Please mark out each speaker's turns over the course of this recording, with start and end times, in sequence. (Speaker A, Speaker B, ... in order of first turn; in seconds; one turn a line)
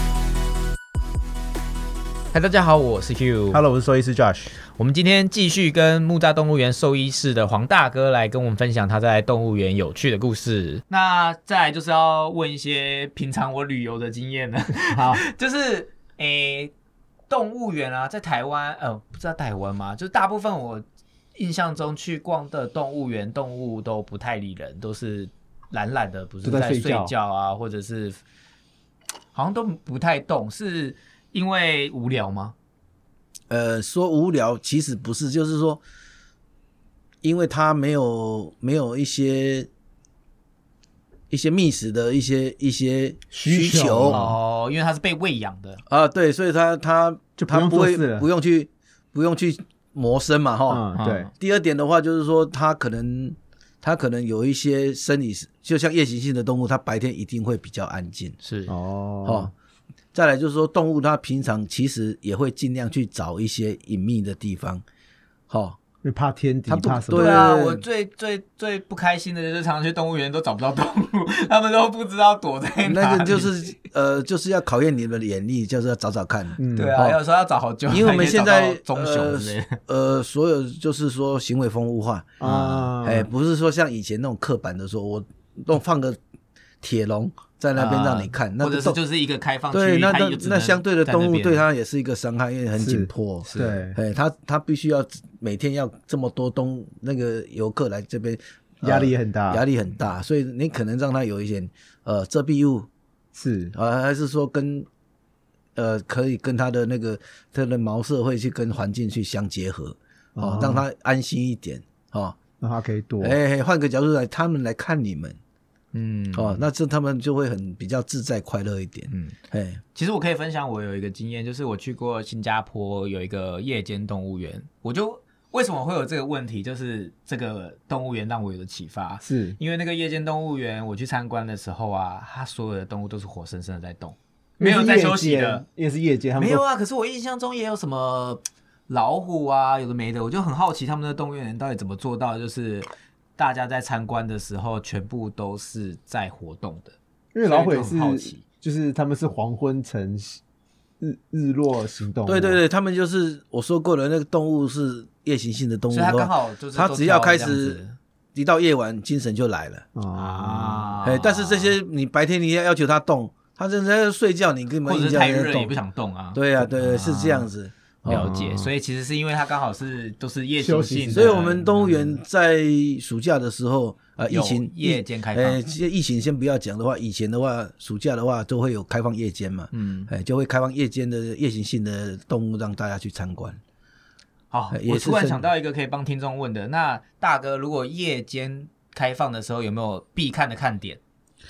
Speaker A: 2.3-3.6
Speaker B: 3.5-4.6
Speaker A: 4.7-16.7
Speaker B: 14.9-15.2
Speaker A: 17.3-28.2
Speaker B: 26.4-27.1
Speaker A: 29.3-32.5
Speaker C: 33.5-35.8
Speaker C: 37.2-39.7
Speaker C: 41.3-44.3
Speaker B: 43.3-44.3
Speaker A: 44.0-45.8
Speaker C: 45.9-58.3
Speaker B: 47.4-48.3
Speaker B: 50.7-51.3
Speaker A: 50.9-51.3
Speaker A: 58.4-58.7
Speaker B: 58.7-59.5
Speaker C: 59.2-59.5
Speaker C: 60.1-64.8
Speaker C: 65.5-65.8
Speaker B: 66.0-67.5
Speaker C: 66.7-67.8
Speaker A: 67.1-73.6
Speaker C: 72.8-77.2
Speaker B: 76.6-77.0
Speaker A: 76.7-79.8
Speaker C: 77.9-82.4
Speaker B: 82.4-83.3
Speaker A: 82.4-82.9
Speaker C: 83.0-86.2
Speaker C: 86.8-89.0
Speaker A: 87.7-91.6
Speaker C: 89.7-102.9
Speaker B: 92.8-94.0
Speaker A: 93.4-93.8
Speaker B: 98.8-99.6
Speaker B: 103.3-103.7
Speaker C: 103.7-104.9
Speaker C: 105.8-112.4
Speaker B: 110.3-110.8
Speaker B: 112.6-113.4
Speaker C: 113.2-115.4
Speaker A: 115.9-116.6
Speaker C: 116.3-119.8
Speaker A: 119.1-119.3
Speaker A: 119.9-135.6
Speaker B: 129.2-129.6
Speaker B: 134.6-136.6
Speaker A: 136.4-148.4
Speaker B: 147.3-150.4
Speaker B: 151.0-152.6
Speaker C: 152.2-157.8
Speaker A: 155.9-157.9
Speaker C: 158.3-159.8
Speaker B: 159.9-160.9
Speaker A: 160.1-161.8
Speaker C: 161.0-165.8
Speaker A: 164.8-167.5
Speaker C: 166.3-168.3
Speaker A: 168.1-171.7
Speaker B: 168.1-168.7
Speaker B: 170.6-172.2
Speaker C: 171.1-183.6
Speaker A: 174.3-175.6
Speaker A: 179.7-180.1
Speaker A: 184.5-191.0
Speaker C: 184.7-185.4